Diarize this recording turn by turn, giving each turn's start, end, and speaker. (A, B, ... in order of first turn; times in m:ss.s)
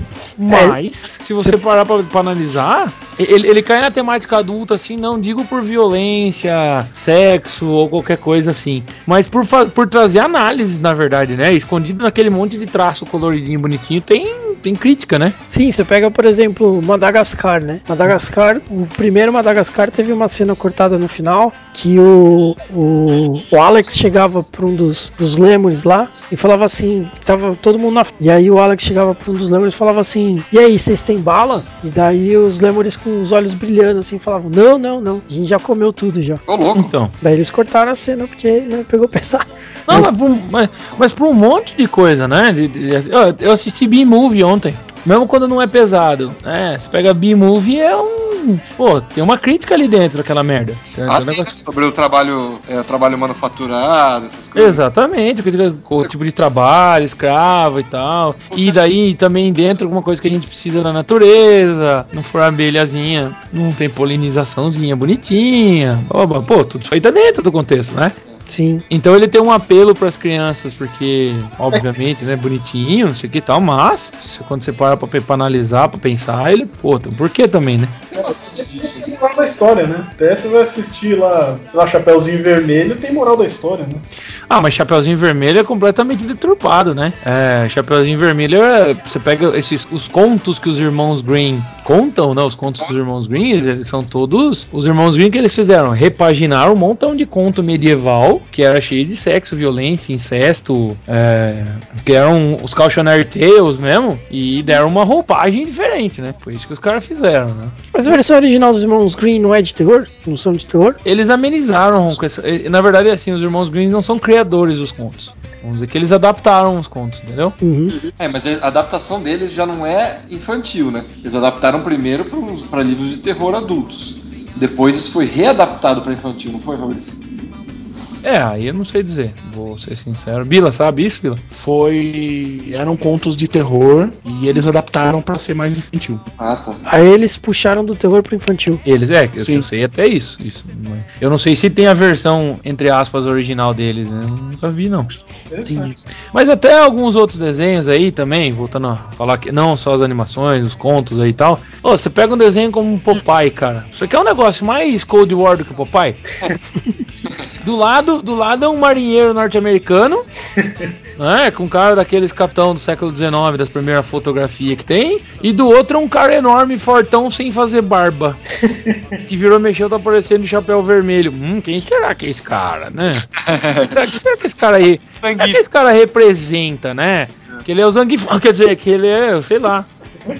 0:00.4-0:15.4 A
0:00.5-0:00.8 B
0:15.5-0:36.4 B
0:36.5-0:36.9 C
0:36.8-0:37.1 A
0:37.2-0:40.1 B
0:39.9-0:51.6 A
0:51.1-0:54.8 C
0:54.6-1:08.2 A
0:56.0-0:56.4 C
0:58.5-0:58.8 C
1:08.5-1:08.8 B
1:08.9-1:18.0 A
1:18.1-1:19.1 C
1:18.2-1:24.0 D
1:24.5-1:47.8 A
1:47.9-1:51.0 B
1:51.0-1:57.6 A
1:57.6-1:58.0 B
1:58.2-2:07.2 C
2:08.2-2:11.4 A
2:11.5-2:16.3 E
2:16.4-2:16.8 C
2:16.9-2:18.8 B
2:18.8-2:25.2 A
2:19.4-2:19.7 E
2:25.5-2:26.0 D
2:26.3-2:36.3 A
2:37.6-2:40.3 A
2:40.6-2:40.8 D
2:41.2-2:48.4 A
2:48.6-2:49.2 D
2:49.3-2:53.3 A
2:53.3-2:55.6 C
2:53.9-2:59.9 A